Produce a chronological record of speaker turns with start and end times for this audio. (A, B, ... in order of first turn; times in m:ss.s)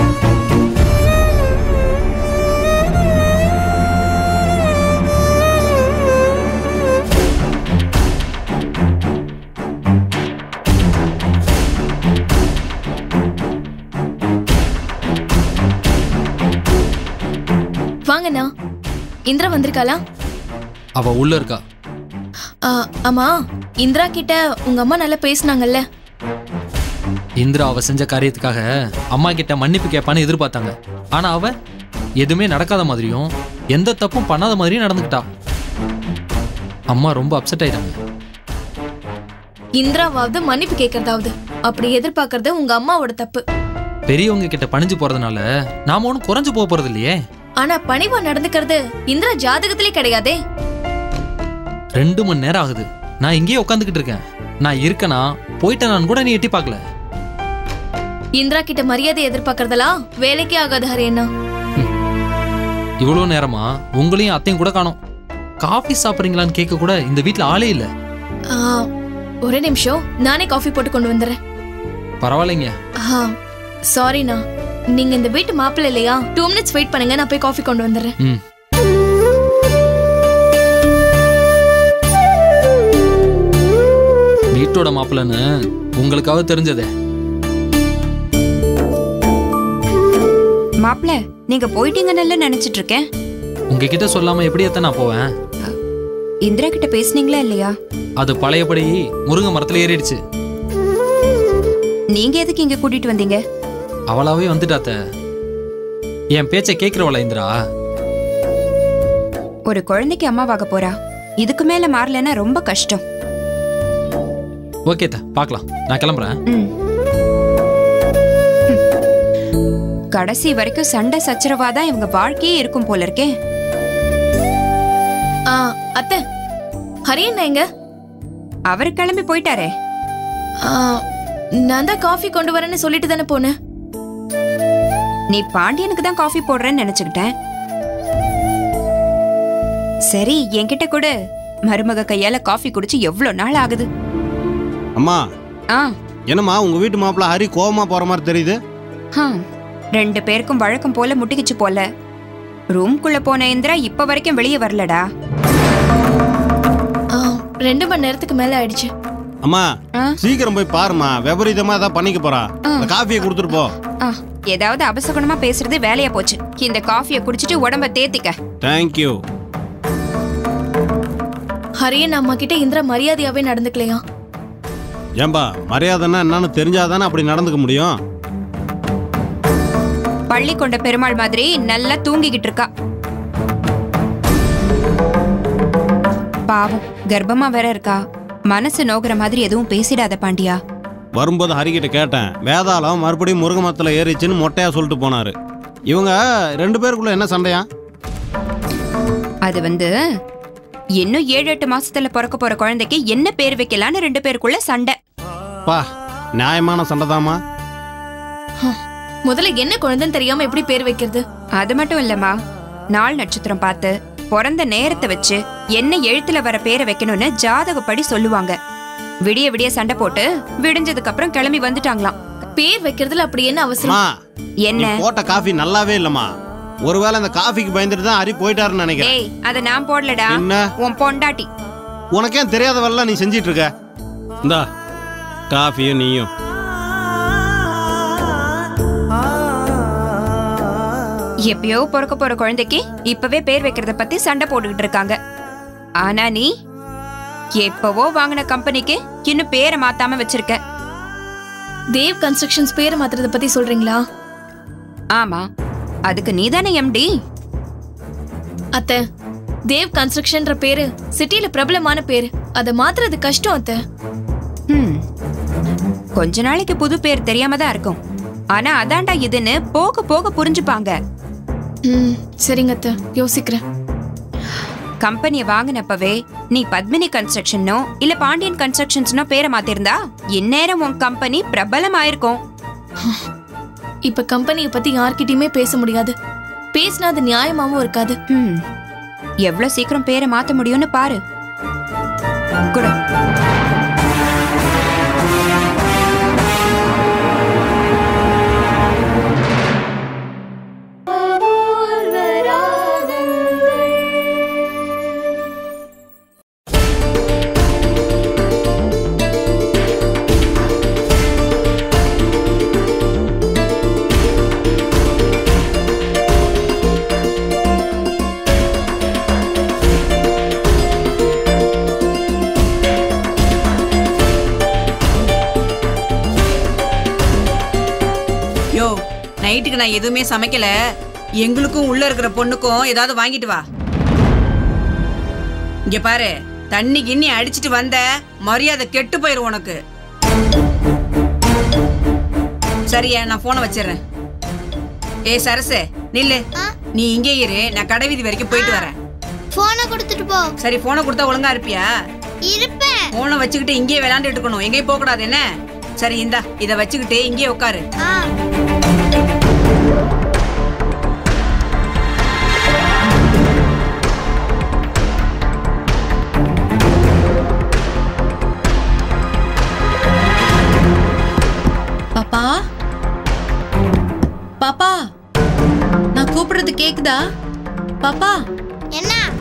0:18.1-0:18.5 A
0:19.3-0:20.0 A
0:21.0-0:21.6 B
0:22.6-0:25.8 A
0:27.4-0:31.5 B
0:32.2-0:35.2 B
0:36.9-0:38.0 B
0:39.8-0:43.4 A
0:44.1-0:47.2 B
0:47.6-0:50.4 A
0:52.0-0:56.8 B
0:58.4-1:01.3 A
1:03.0-1:05.0 B
1:05.6-1:07.9 B
1:08.5-1:08.9 A
1:09.5-1:11.4 A
1:12.2-1:12.7 B
1:13.0-1:13.3 A
1:13.9-1:14.4 A
1:15.0-1:18.1 A
1:24.5-1:25.4 B
1:26.0-1:26.9 B
1:30.8-1:33.0 C
1:33.7-1:35.3 B
1:36.4-1:37.7 C
1:38.2-1:40.2 B
1:42.2-1:43.4 C
1:44.1-1:45.0 B
1:46.4-1:47.5 B
1:49.7-1:53.0 C
1:54.9-1:56.4 B
2:00.2-2:03.3 C
2:05.5-2:06.2 A
2:07.1-2:07.6 A
2:08.7-2:09.7 C
2:10.6-2:11.0 A
2:11.7-2:13.5 A
2:15.3-2:17.3 C
2:20.1-2:21.1 C
2:21.7-2:23.9 C
2:25.0-2:25.2 D
2:26.3-2:28.6 D
2:29.2-2:29.4 C
2:30.0-2:31.8 C
2:32.8-2:35.0 C
2:37.2-2:38.9 A
2:40.2-2:43.7 D
2:42.7-2:42.9 C
2:44.0-2:48.4 C
2:48.6-2:49.2 D
2:51.8-2:54.0 A
2:55.2-2:58.0 D
3:00.3-3:02.7 C
3:06.5-3:10.6 C
3:11.2-3:15.3 D
3:15.9-3:17.7 D
3:19.5-3:19.9 C
3:21.0-3:25.0 C
3:26.4-3:27.4 D
3:28.6-3:31.2 A
3:31.6-3:32.4 C
3:32.9-3:38.6 C
3:39.3-3:42.2 C
3:42.6-3:44.0 A
3:43.8-3:44.1 D
3:44.7-3:45.0 C
3:44.8-3:46.3 D
3:46.9-3:49.2 D
3:49.0-3:51.5 C
3:50.3-3:50.7 D
3:52.2-3:53.7 D
3:55.5-3:56.3 D
4:01.5-4:05.2 C
4:06.0-4:06.5 C
4:07.6-4:10.6 C
4:12.0-4:14.0 A
4:15.2-4:15.4 C
4:16.1-4:17.1 C
4:18.8-4:19.0 A
4:19.7-4:23.8 A
4:24.7-4:25.0 C
4:26.2-4:28.0 C
4:28.6-4:30.9 C
4:31.9-4:33.6 A
4:35.0-4:42.4 C
4:44.1-4:46.2 A
4:46.7-4:48.2 A
4:48.3-4:48.6 C
4:49.5-4:51.2 C
5:28.8-5:30.7 E
5:31.4-5:33.6 E
5:35.9-5:39.8 E
5:42.9-5:44.0 E
5:45.3-5:46.4 E
5:47.0-5:48.9 E
5:48.5-5:48.9 F
5:49.6-5:50.5 F
5:50.6-5:51.9 E
5:52.5-5:53.0 F
5:53.2-5:55.4 E
5:56.0-5:57.8 E
6:12.2-6:12.6 G
6:14.6-6:15.0 G
6:16.2-6:17.2 G
6:18.0-6:18.4 G
6:19.0-6:19.2 F